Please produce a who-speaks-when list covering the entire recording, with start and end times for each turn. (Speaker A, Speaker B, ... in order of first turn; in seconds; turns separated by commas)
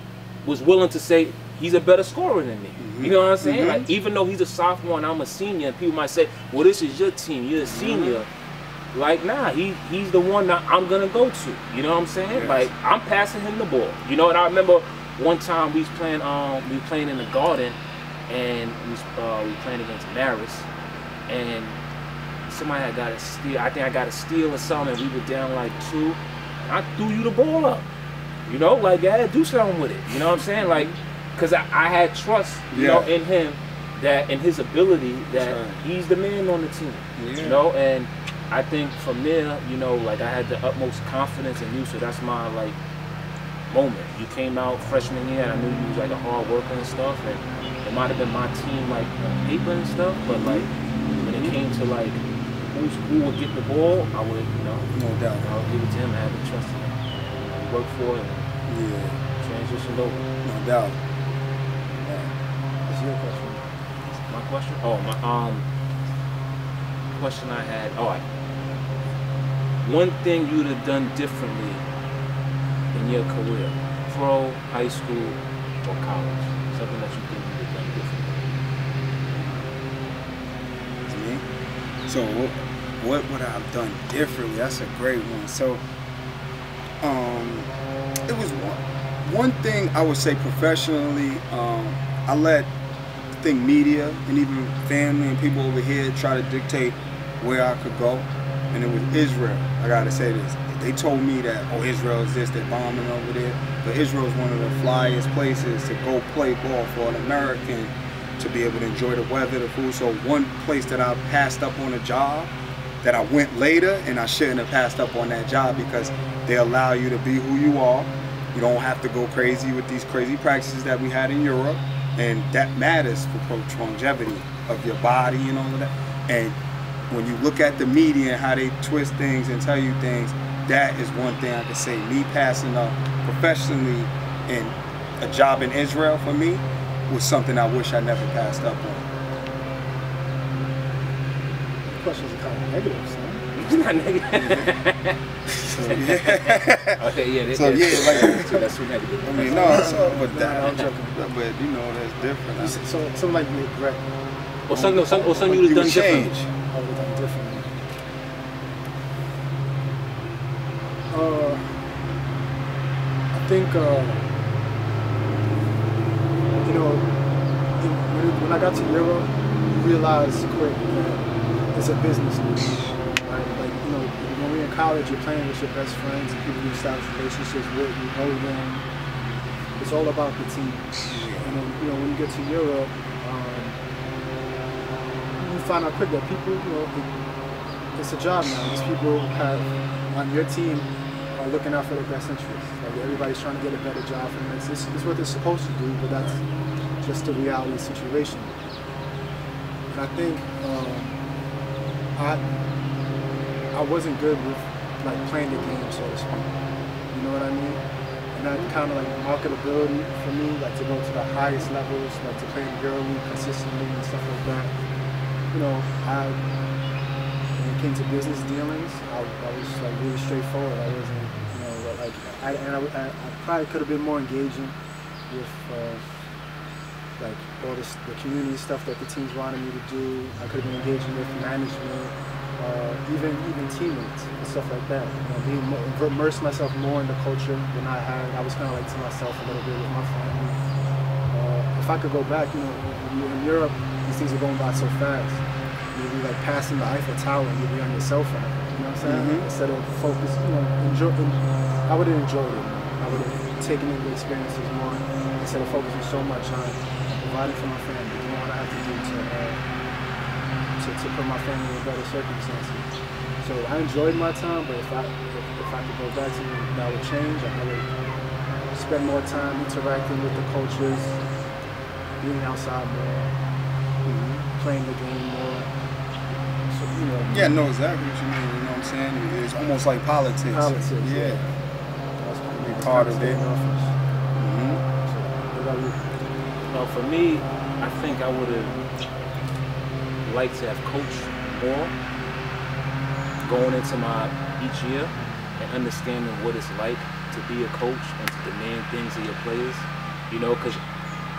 Speaker A: 0.4-8.3, Speaker B: 2.8-3.9, Speaker B: 7.6-8.2, Speaker A: 8.9-20.7, Speaker B: 12.3-12.7, Speaker A: 21.3-21.8, Speaker A: 22.5-27.9, Speaker A: 28.4-42.8, Speaker B: 30.5-30.9, Speaker B: 32.7-33.1, Speaker B: 35.3-35.8, Speaker B: 37.1-37.6, Speaker A: 43.7-58.5, Speaker B: 50.3-51.6, Speaker B: 54.9-55.5, Speaker B: 58.6-59.2, Speaker A: 59.4-60.3, Speaker B: 60.4-61.0, Speaker B: 61.9-62.3, Speaker C: 62.9-63.6, Speaker A: 64.1-65.7, Speaker A: 67.1-68.2, Speaker A: 69.8-71.8, Speaker A: 72.9-78.5, Speaker B: 79.3-79.7, Speaker B: 81.0-81.4, Speaker B: 82.1-85.8, Speaker B: 87.0-87.7, Speaker B: 88.2-92.7, Speaker B: 93.4-112.5, Speaker B: 113.0-126.6, Speaker B: 127.1-139.1, Speaker C: 141.9-143.5, Speaker A: 143.5-150.0, Speaker B: 144.3-144.7, Speaker C: 145.7-146.0, Speaker B: 145.9-147.0, Speaker B: 147.5-148.6, Speaker B: 149.2-152.8, Speaker C: 149.3-151.2, Speaker A: 150.6-150.9, Speaker C: 152.6-154.1, Speaker A: 154.7-156.4, Speaker B: 154.7-156.5, Speaker C: 156.7-157.9, Speaker C: 161.1-161.6, Speaker C: 163.3-164.2, Speaker C: 166.5-167.1, Speaker C: 167.8-178.8, Speaker C: 179.8-183.8, Speaker B: 181.1-181.6, Speaker C: 185.3-187.1, Speaker C: 187.9-196.4, Speaker C: 197.0-198.6, Speaker C: 199.9-201.2, Speaker C: 202.1-202.5, Speaker C: 203.7-206.5, Speaker C: 207.1-207.8, Speaker C: 208.3-214.7, Speaker C: 215.5-216.4, Speaker C: 217.6-224.8, Speaker C: 225.3-226.1, Speaker C: 227.2-240.6, Speaker C: 241.3-259.6, Speaker B: 249.0-249.5, Speaker C: 260.8-262.9, Speaker C: 263.4-267.9, Speaker C: 268.7-271.2, Speaker C: 272.2-273.3, Speaker B: 274.1-274.4, Speaker C: 274.5-275.7, Speaker C: 276.3-277.6, Speaker B: 277.3-281.4, Speaker C: 280.5-281.5, Speaker C: 282.2-284.0, Speaker B: 282.6-283.4, Speaker B: 284.3-284.8, Speaker C: 285.0-286.1, Speaker A: 286.7-288.8, Speaker A: 290.2-291.9, Speaker A: 293.4-300.8, Speaker C: 295.2-295.5